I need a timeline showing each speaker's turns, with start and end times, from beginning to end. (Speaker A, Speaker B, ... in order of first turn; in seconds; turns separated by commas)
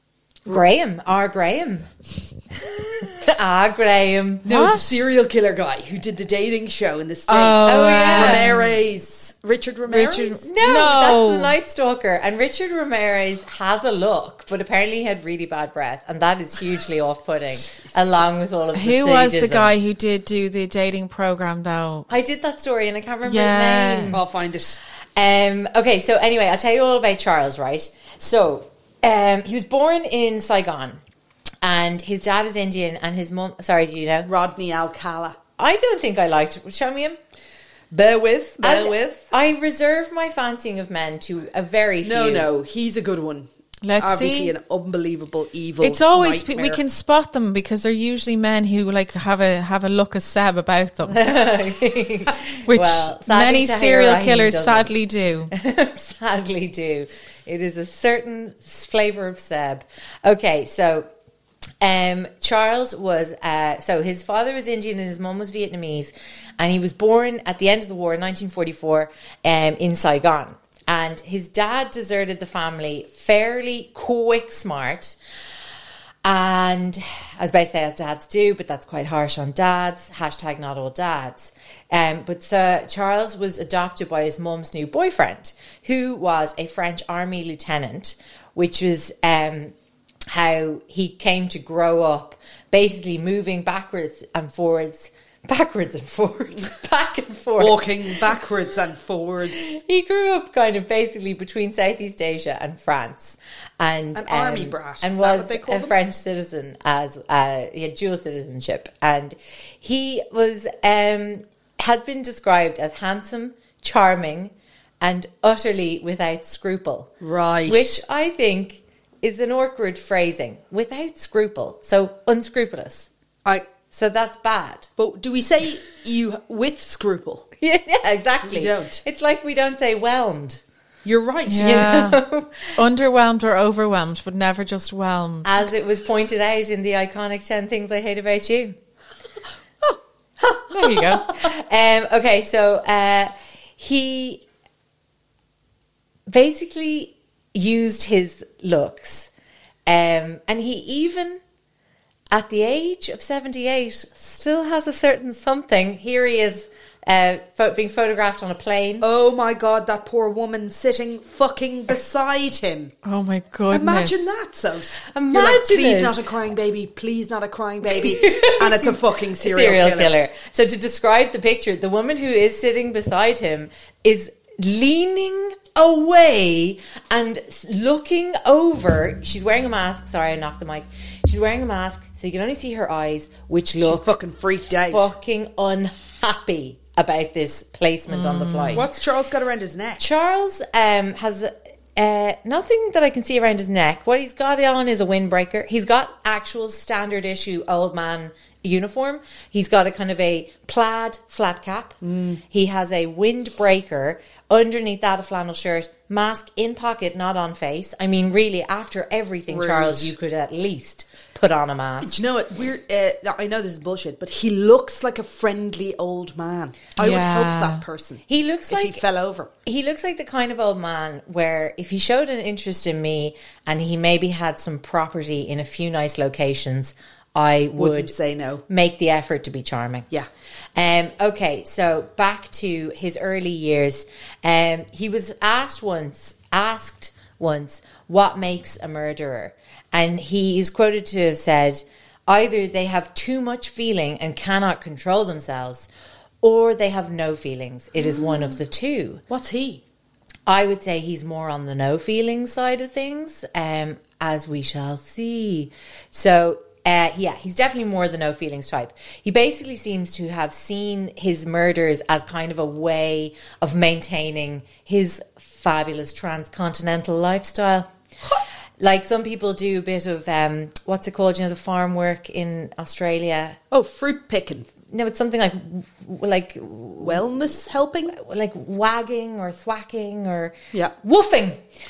Speaker A: 0.5-1.9, Speaker A: 2.6-4.5, Speaker B: 4.4-10.4, Speaker C: 4.5-5.0, Speaker C: 7.3-8.7, Speaker A: 7.6-8.5, Speaker C: 9.9-11.6, Speaker A: 10.4-19.7, Speaker C: 18.7-22.1, Speaker A: 22.1-24.2, Speaker C: 23.2-24.2, Speaker B: 24.1-24.8, Speaker A: 25.1-31.0, Speaker A: 31.6-34.3, Speaker B: 34.2-35.4, Speaker A: 35.6-37.2, Speaker B: 37.9-39.3, Speaker A: 38.6-42.5, Speaker B: 42.0-46.8, Speaker C: 43.8-44.5, Speaker C: 45.8-51.3, Speaker A: 51.0-55.0, Speaker C: 52.6-55.5, Speaker A: 55.5-61.1, Speaker A: 61.8-75.2, Speaker A: 76.2-89.7, Speaker A: 90.3-97.9, Speaker B: 97.6-99.7, Speaker A: 99.6-117.1, Speaker B: 104.1-106.0, Speaker B: 117.2-118.0, Speaker A: 117.7-123.1, Speaker A: 123.9-124.9, Speaker B: 125.0-127.5, Speaker A: 127.6-130.6, Speaker B: 128.4-129.0, Speaker B: 131.0-131.9, Speaker C: 131.5-132.2, Speaker A: 131.6-132.6, Speaker C: 132.8-135.5, Speaker A: 135.4-138.8, Speaker C: 140.7-141.3, Speaker A: 141.3-144.4, Speaker A: 146.3-149.3, Speaker A: 149.9-151.4, Speaker A: 152.3-159.1, Speaker B: 159.0-162.9, Speaker C: 163.0-164.3, Speaker B: 163.7-170.1, Speaker A: 165.1-166.2, Speaker A: 168.1-184.1, Speaker B: 183.7-185.1, Speaker A: 184.8-188.9, Speaker C: 188.1-188.9, Speaker B: 188.7-190.0, Speaker A: 190.0-202.0, Speaker B: 202.0-202.4, Speaker A: 202.5-212.2, Speaker B: 209.5-210.1, Speaker B: 212.0-219.5, Speaker C: 216.9-217.8, Speaker A: 218.3-219.0, Speaker A: 219.7-228.1, Speaker B: 227.8-228.6, Speaker A: 228.7-230.1, Speaker A: 230.8-245.9, Speaker A: 246.4-249.2, Speaker B: 249.3-249.8, Speaker A: 250.5-267.9, Speaker A: 268.8-273.6, Speaker B: 273.7-274.7, Speaker A: 274.9-277.2, Speaker B: 277.0-278.2, Speaker A: 278.1-281.6